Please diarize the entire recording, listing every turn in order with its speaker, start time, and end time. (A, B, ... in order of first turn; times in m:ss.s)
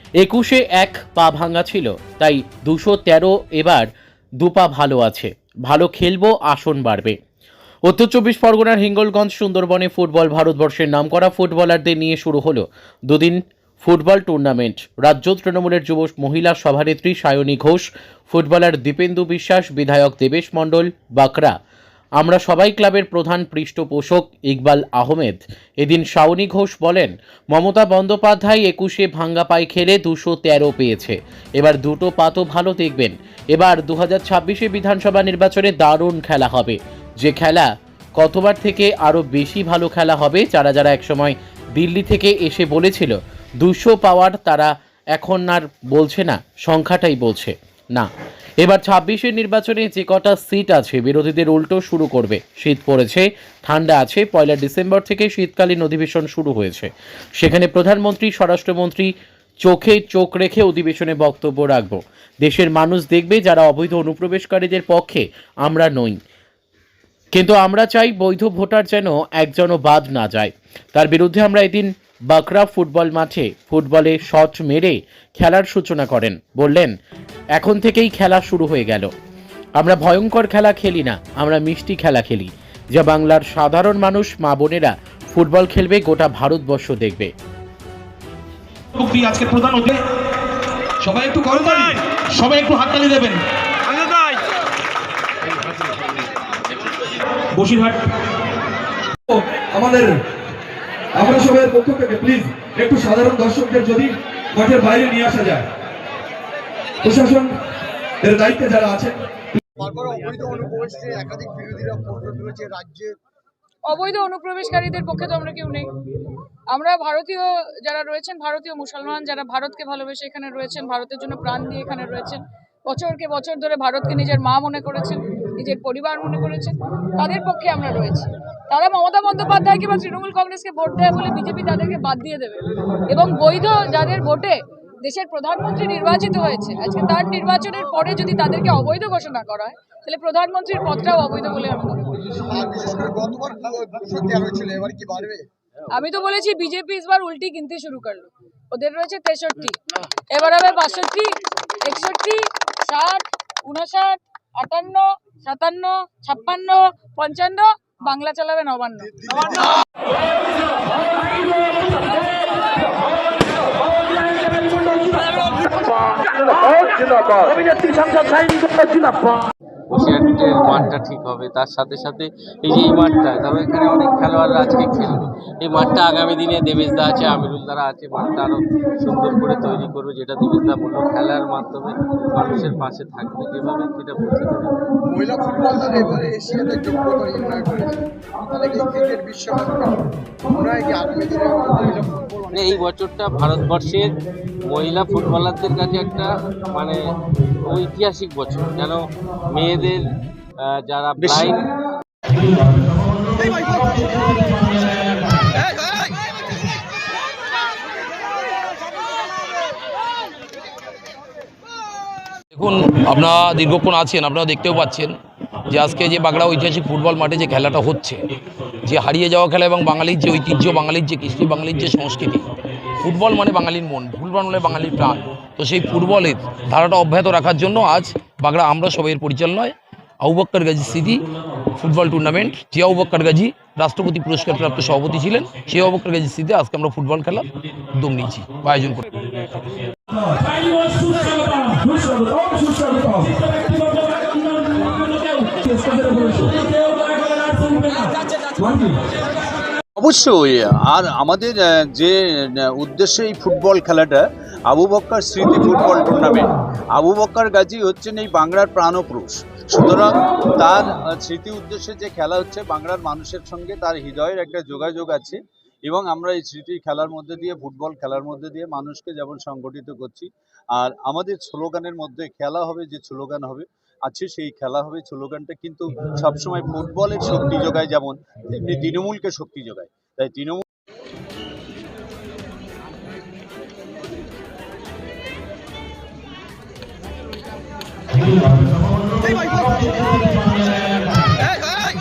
0:00.2-0:03.9 A
0:04.4-0:07.2 A
0:07.8-0:21.5 A
0:22.2-0:48.1 A
0:48.6-0:59.1 A
0:59.6-1:06.2 A
1:07.3-1:16.9 A
1:17.6-1:19.1 A
1:19.8-1:27.3 A
1:28.9-1:30.0 B
1:31.0-1:31.9 C
1:32.3-1:33.4 B
1:37.5-1:38.0 B
1:39.3-1:40.2 C
1:41.1-1:45.7 C
1:47.0-1:47.5 C
1:48.2-1:49.2 C
1:49.8-1:53.0 D
1:53.8-1:55.9 E
1:56.7-2:22.2 E
2:22.5-2:25.3 D
2:25.9-2:29.8 E
2:30.3-2:39.2 E
2:49.9-3:04.9 F
3:05.1-3:07.9 D
3:08.6-3:12.4 D
3:12.5-3:17.0 F
3:17.6-3:21.7 F
3:32.5-3:35.1 G
3:35.7-3:38.2 G
3:38.8-3:42.5 G
3:43.0-3:59.2 G
4:00.1-4:01.2 C
4:01.9-4:03.5 C
4:05.6-4:06.6 C
4:10.0-4:40.6 H